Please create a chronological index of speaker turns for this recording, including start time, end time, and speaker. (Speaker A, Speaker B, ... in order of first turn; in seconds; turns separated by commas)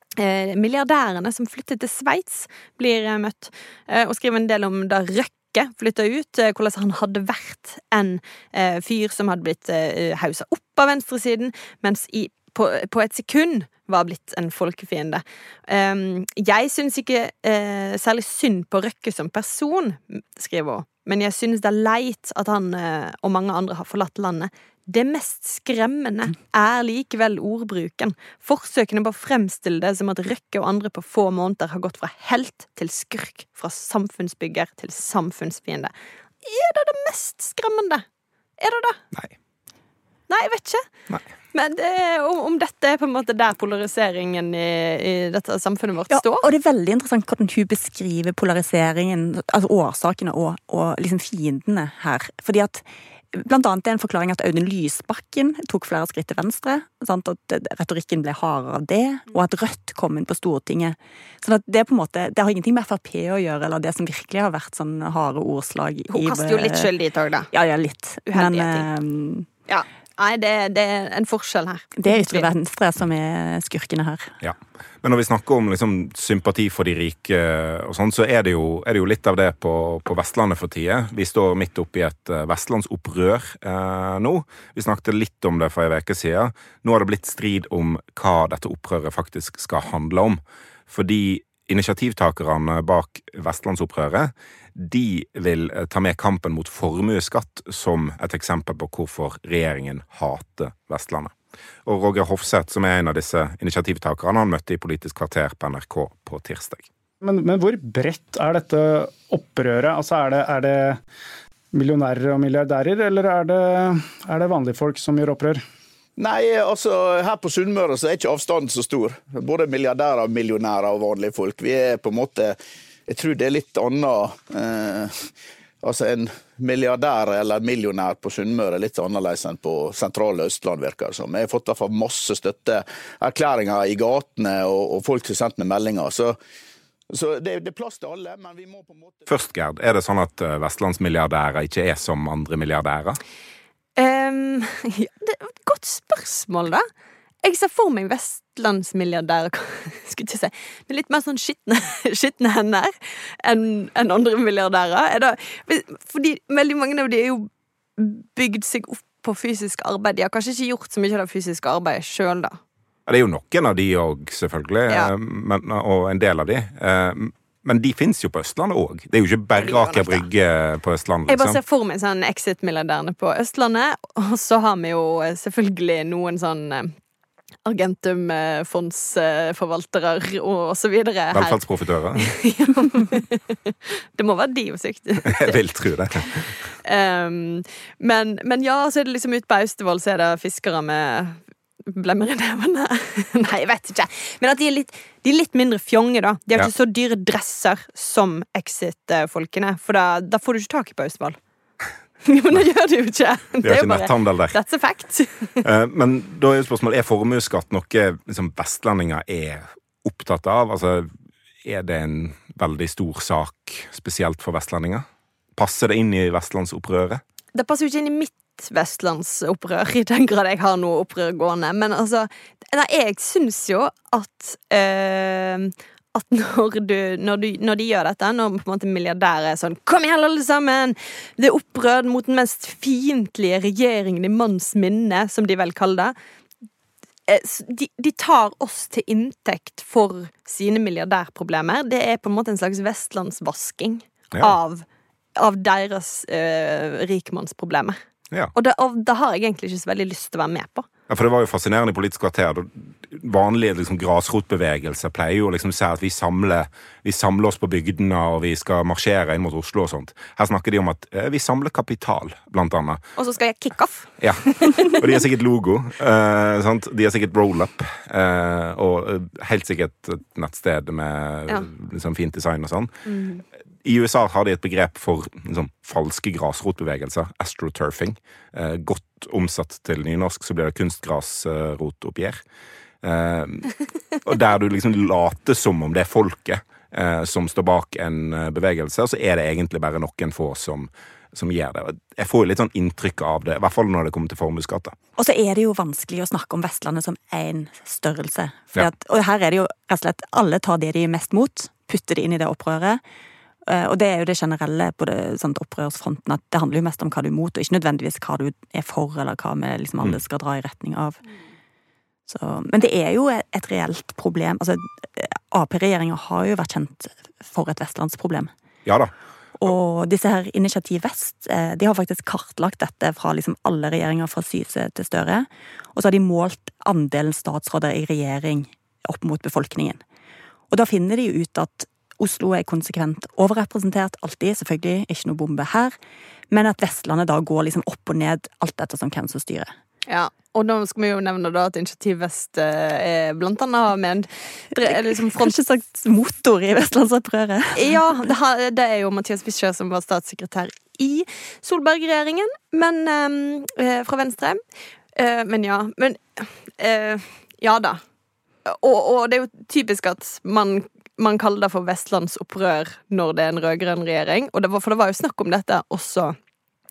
Speaker A: 0.2-35.9, Speaker A: 36.4-38.0, Speaker A: 38.6-39.0, Speaker A: 40.3-40.8, Speaker A: 41.5-46.5, Speaker B: 46.1-66.9, Speaker A: 66.1-67.5, Speaker B: 67.5-69.5, Speaker A: 68.3-68.9, Speaker A: 69.7-72.5, Speaker B: 72.0-74.3, Speaker C: 74.4-101.3, Speaker C: 101.9-106.9, Speaker D: 107.2-111.0, Speaker D: 111.7-115.6, Speaker E: 116.2-122.6, Speaker E: 123.1-136.4, Speaker E: 137.1-139.3, Speaker C: 139.3-143.2, Speaker A: 144.0-146.9, Speaker A: 147.4-152.9, Speaker A: 153.4-162.6, Speaker C: 163.1-171.6, Speaker A: 169.6-170.3, Speaker A: 171.3-176.9, Speaker A: 177.7-181.6, Speaker C: 181.3-182.3, Speaker A: 182.2-185.6, Speaker C: 185.3-186.5, Speaker A: 186.8-201.4, Speaker A: 202.2-205.7, Speaker C: 203.6-204.6, Speaker C: 205.6-211.1, Speaker C: 211.6-215.1, Speaker C: 215.6-217.2, Speaker A: 217.6-236.1, Speaker A: 237.3-248.0, Speaker A: 248.5-250.9, Speaker C: 251.1-263.0, Speaker A: 263.2-265.0, Speaker C: 264.2-272.9, Speaker A: 273.1-273.4, Speaker C: 273.8-282.4, Speaker C: 283.0-283.7, Speaker C: 284.2-294.9, Speaker B: 295.2-303.0, Speaker B: 303.7-311.2, Speaker B: 312.3-318.5, Speaker C: 318.9-319.1, Speaker B: 319.6-330.0, Speaker B: 330.7-335.9, Speaker B: 336.5-339.7, Speaker A: 340.1-345.5, Speaker B: 344.8-348.0, Speaker A: 347.8-354.6, Speaker A: 355.2-358.0, Speaker A: 358.6-366.4